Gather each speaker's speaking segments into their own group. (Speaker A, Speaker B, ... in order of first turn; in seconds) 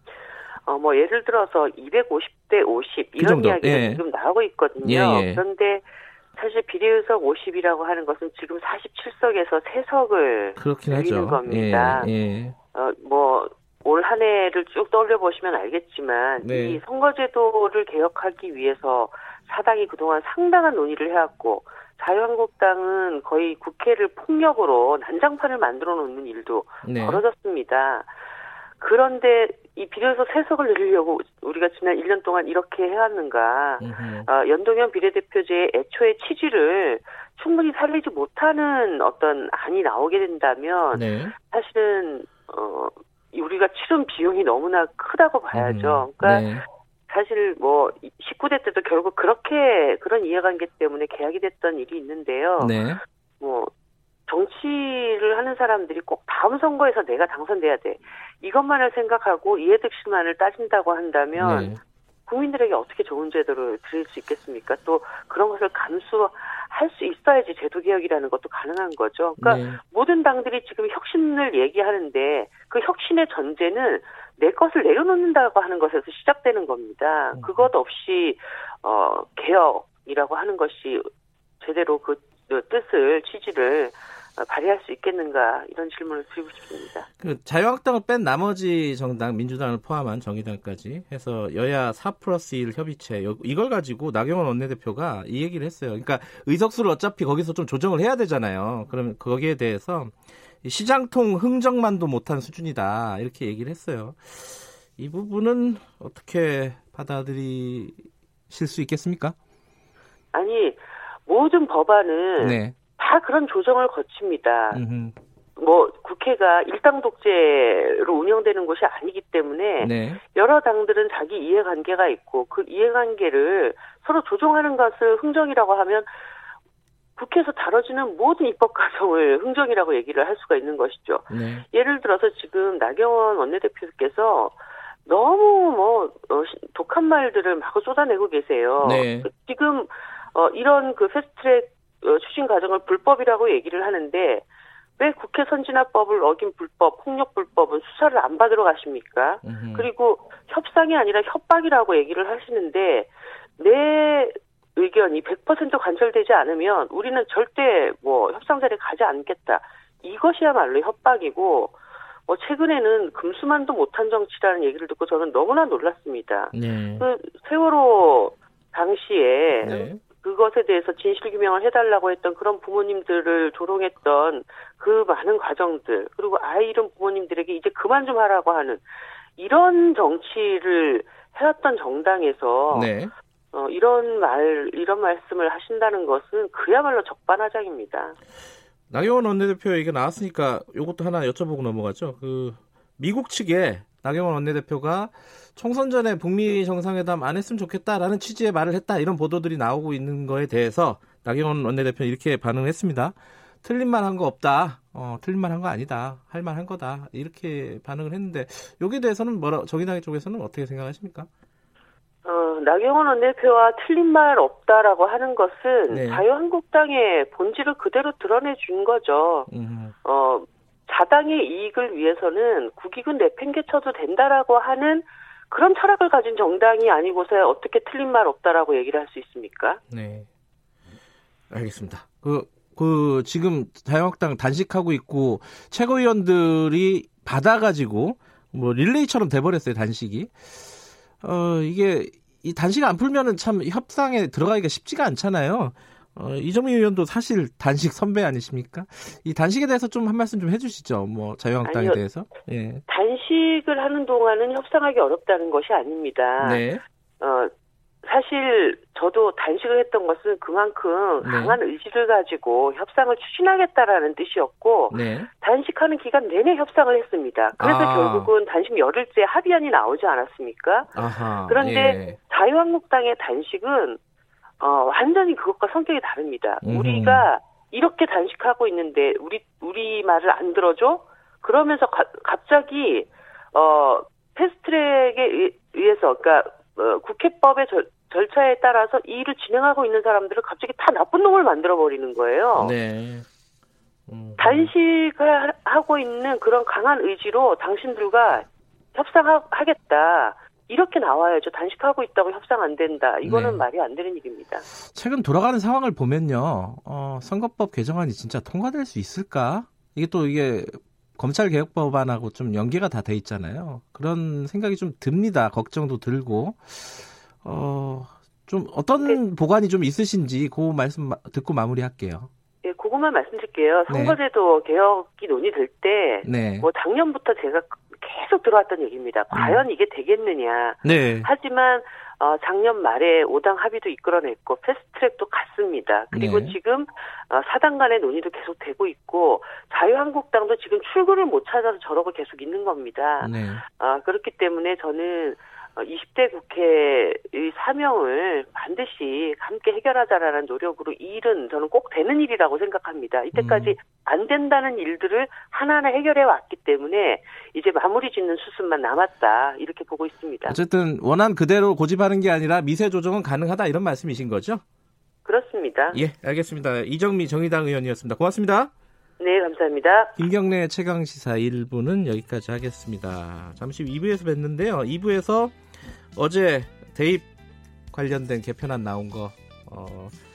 Speaker A: 0.7-12.1, 12.7-28.1, 28.8-46.5, 47.1-52.8, 53.4-53.7, 54.3-61.7, 62.3-81.1, 81.6-87.1, 110.3-114.8, 115.6-126.1, 127.2-144.4, 145.0-161.8, 162.3-178.8, 179.4-182.9, 183.5-188.2, 212.2-219.5, 220.0-229.8, 251.6-252.0, 252.9-256.7, 257.2-257.5, 258.0-270.9, 271.4-274.0, 274.6-292.7, 294.4-304.7, 322.6-360.6, 365.2-366.0, 369.2-370.2
Speaker B: 3.2-4.0, 4.8-5.4, 10.6-12.6, 16.4-16.8, 26.8-27.2, 33.8-34.3, 40.9-41.4, 45.5-46.6, 52.6-53.0, 61.4-61.8, 69.4-69.8, 77.3-77.7, 87.2-109.3, 112.4-112.8, 114.7-115.1, 119.8-120.2, 131.3-131.6, 138.8-139.3, 149.4-149.9, 166.5-167.1, 169.6-170.0, 182.7-183.1, 188.9-211.3, 215.9-216.2, 219.5-219.9, 229.9-230.3, 231.5-240.7, 241.2-252.8, 256.4-256.8, 261.2-261.6, 264.9-265.3, 267.6-268.3, 270.9-272.2, 276.6-277.3, 292.6-293.3, 294.1-294.7, 303.2-303.7, 304.9-322.3, 323.9-324.2, 326.2-326.7, 329.3-329.6, 330.8-331.3, 336.1-336.6, 343.2-343.6, 353.3-353.8, 360.5-364.6, 365.9-368.7, 370.2-375.6, 376.1-377.3, 377.9-380.1